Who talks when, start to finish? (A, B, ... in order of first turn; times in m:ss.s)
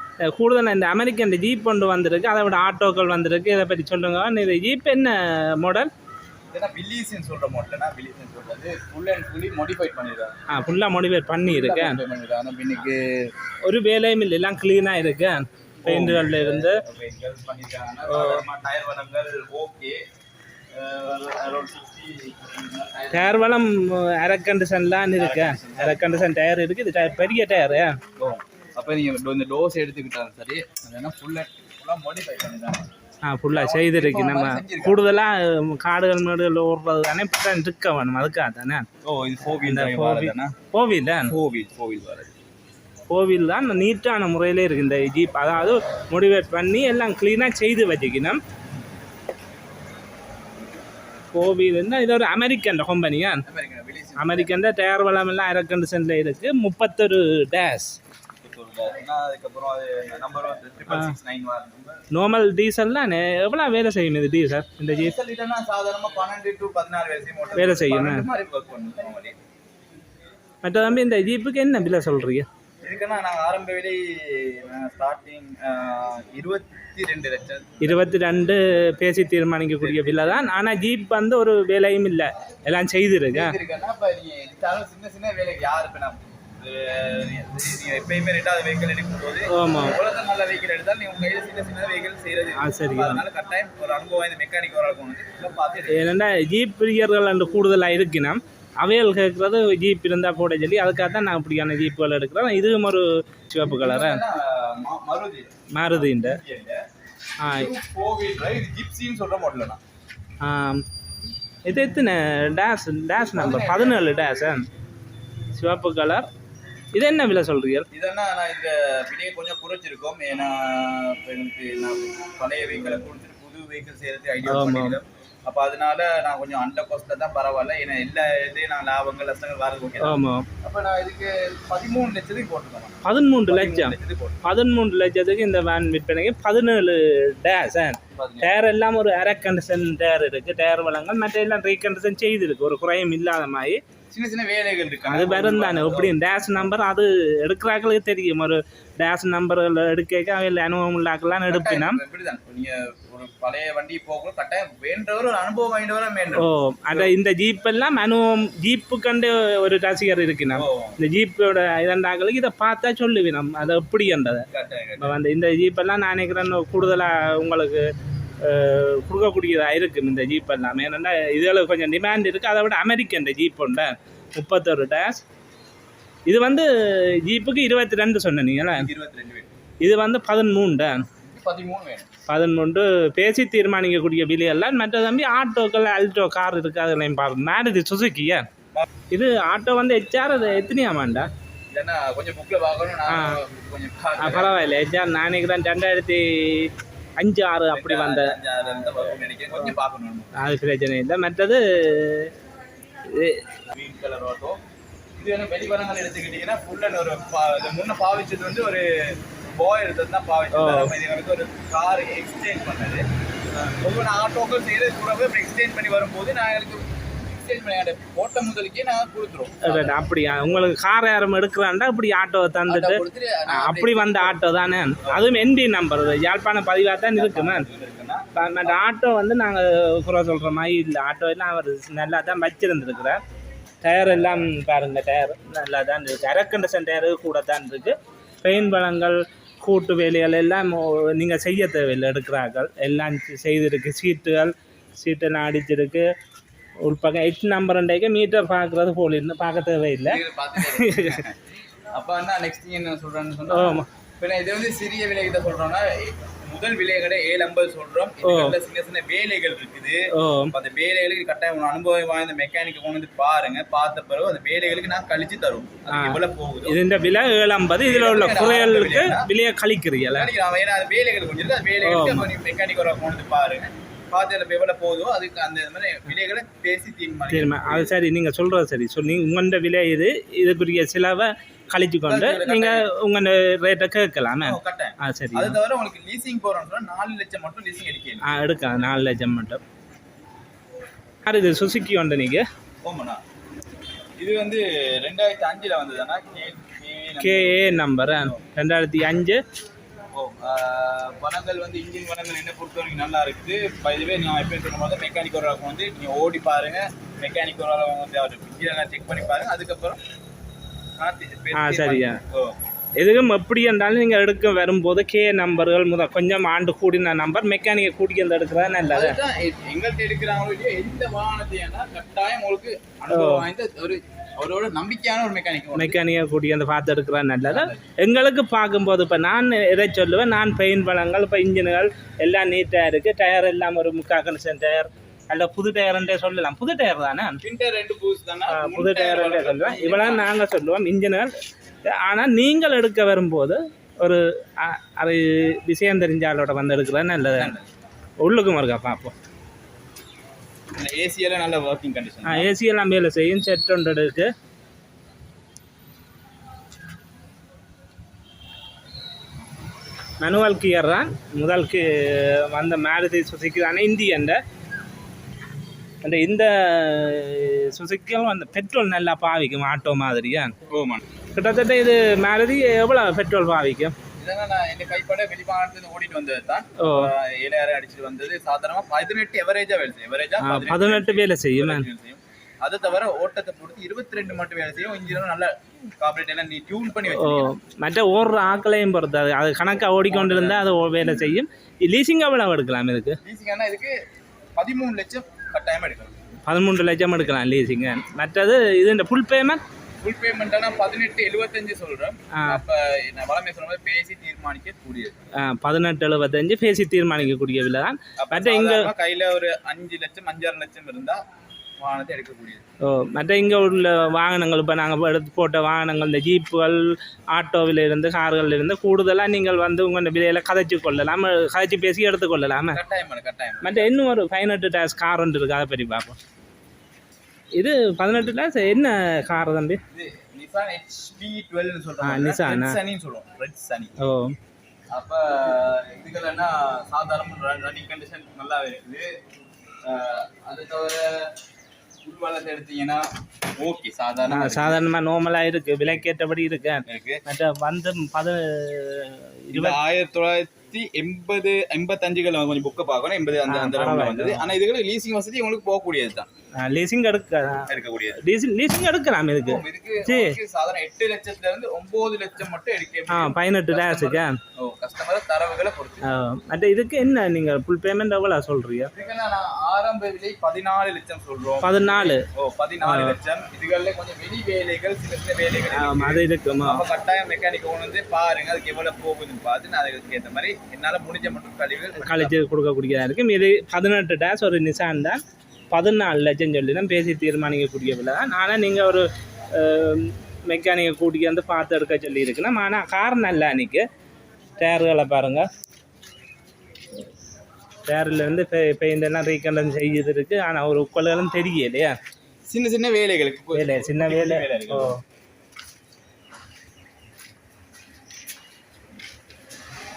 0:00.3-0:05.9 A
0:06.5-0:10.4 B
0:10.5-0:12.0 A
0:11.4-0:13.3 B
0:13.6-0:16.8 A
0:15.8-0:20.0 B
0:18.1-0:18.4 A
0:20.8-0:23.4 B
0:23.1-0:28.0 A
0:25.1-0:26.3 B
0:28.2-0:32.8 B
0:33.2-0:38.8 A
0:33.5-0:35.0 B
0:39.0-0:40.5 B
0:39.6-0:41.3 A
0:41.2-0:42.3 B
0:43.1-0:48.4 A
0:51.3-0:53.4 A
0:53.5-0:54.5 B
0:54.2-0:58.0 A
0:58.4-1:02.0 B
1:00.9-1:01.1 A
1:02.1-1:05.1 A
1:05.0-1:09.3 B
1:07.6-1:08.3 A
1:10.6-1:12.5 A
1:12.8-1:18.0 B
1:17.8-1:23.6 A
1:19.8-1:20.4 B
1:23.3-1:36.0 B
1:29.5-1:30.0 A
1:32.6-1:33.2 A
1:35.9-1:44.2 A
1:43.7-1:46.8 B
1:45.8-1:46.4 A
1:47.4-1:47.7 A
1:47.4-1:49.8 B
1:50.4-1:50.8 A
1:51.7-1:54.6 A
1:53.2-1:54.1 B
1:55.6-1:56.3 A
1:56.9-1:57.9 A
1:57.9-2:14.4 B
2:04.4-2:05.0 A
2:10.0-2:10.4 A
2:13.0-2:23.8 A
2:18.1-2:18.5 B
2:24.1-2:26.7 B
2:25.0-2:32.0 A
2:31.5-2:37.1 B
2:36.4-2:44.4 A
2:40.5-2:41.0 B
2:44.5-2:45.2 B
2:45.0-2:47.8 A
2:48.4-2:55.2 A
2:56.3-2:58.9 A
2:58.7-2:59.5 B
2:59.8-3:01.0 A
3:01.2-3:02.1 B
3:02.3-3:08.4 A
3:09.1-3:11.3 A
3:11.7-3:14.6 B
3:13.1-3:13.4 A
3:14.2-3:19.1 A
3:17.7-3:20.3 B
3:20.4-3:22.3 A
3:23.1-3:23.4 A
3:23.7-3:24.6 B
3:25.2-3:33.0 B
3:30.5-3:30.9 A
3:33.7-3:40.1 B
3:39.6-3:47.7 A
3:42.7-3:44.4 B
3:47.1-3:48.8 B
3:48.4-3:53.2 A
3:53.8-4:06.1 A
4:06.8-4:11.2 A
4:10.1-4:11.4 B
4:11.9-4:26.8 B
4:13.5-4:13.9 A
4:18.2-4:18.6 A
4:20.1-4:20.5 A
4:25.9-4:30.3 A
4:27.8-4:29.3 B
4:30.1-4:37.9 B
4:31.8-4:32.3 A
4:37.3-4:45.6 A
4:42.1-4:42.9 B
4:44.4-4:48.2 B
4:48.2-4:49.6 A
4:51.2-4:52.5 A
4:52.8-4:53.2 B
4:54.2-4:58.4 B
4:57.2-4:59.4 A
5:00.2-5:10.0 B
5:11.0-5:12.6 B
5:11.6-5:12.2 A
5:13.0-5:19.2 A
5:18.9-5:26.0 B
5:23.1-5:23.4 A
5:25.8-5:37.4 A
5:27.5-5:27.9 B
5:37.4-5:40.3 B
5:38.5-5:41.3 A
5:41.8-5:47.5 A
5:47.3-5:47.7 B
5:48.2-5:49.1 A
5:50.8-5:52.5 B
5:52.2-5:54.3 A
6:00.2-6:04.4 A
6:06.0-6:10.5 A
6:10.7-6:11.0 B
6:11.4-6:13.9 A
6:14.2-6:27.5 B
6:16.8-6:17.1 A
6:20.4-6:21.9 A
6:27.1-6:33.2 A
6:30.1-6:30.6 B
6:33.2-6:33.9 B
6:34.6-6:36.2 B
6:36.5-6:39.6 A
6:40.0-6:45.2 B
6:45.4-6:48.9 A
6:48.2-6:51.2 B
6:51.8-6:52.6 B
6:52.8-7:02.8 A
7:02.7-7:03.9 B
7:03.6-7:06.2 A
7:07.6-7:09.8 A
7:09.9-7:13.9 B
7:12.0-7:12.8 A
7:14.0-7:14.4 A
7:14.9-7:19.1 B
7:19.9-7:21.3 B
7:22.0-7:23.0 B
7:23.6-7:24.8 B
7:24.3-7:29.8 A
7:26.9-7:27.2 B
7:29.5-7:36.3 B
7:33.5-7:34.5 A
7:36.6-7:37.7 A
7:37.7-7:38.2 B
7:38.2-7:40.4 A
7:39.5-7:46.1 B
7:43.1-7:44.4 A
7:46.1-7:48.9 A
7:48.9-8:02.4 B
7:51.6-7:52.2 A
7:52.8-7:53.2 A
7:55.7-7:56.8 A
8:02.0-8:13.8 A
8:14.6-8:15.4 A
8:17.9-8:22.0 A
8:22.5-8:25.0 B
8:23.5-8:25.0 A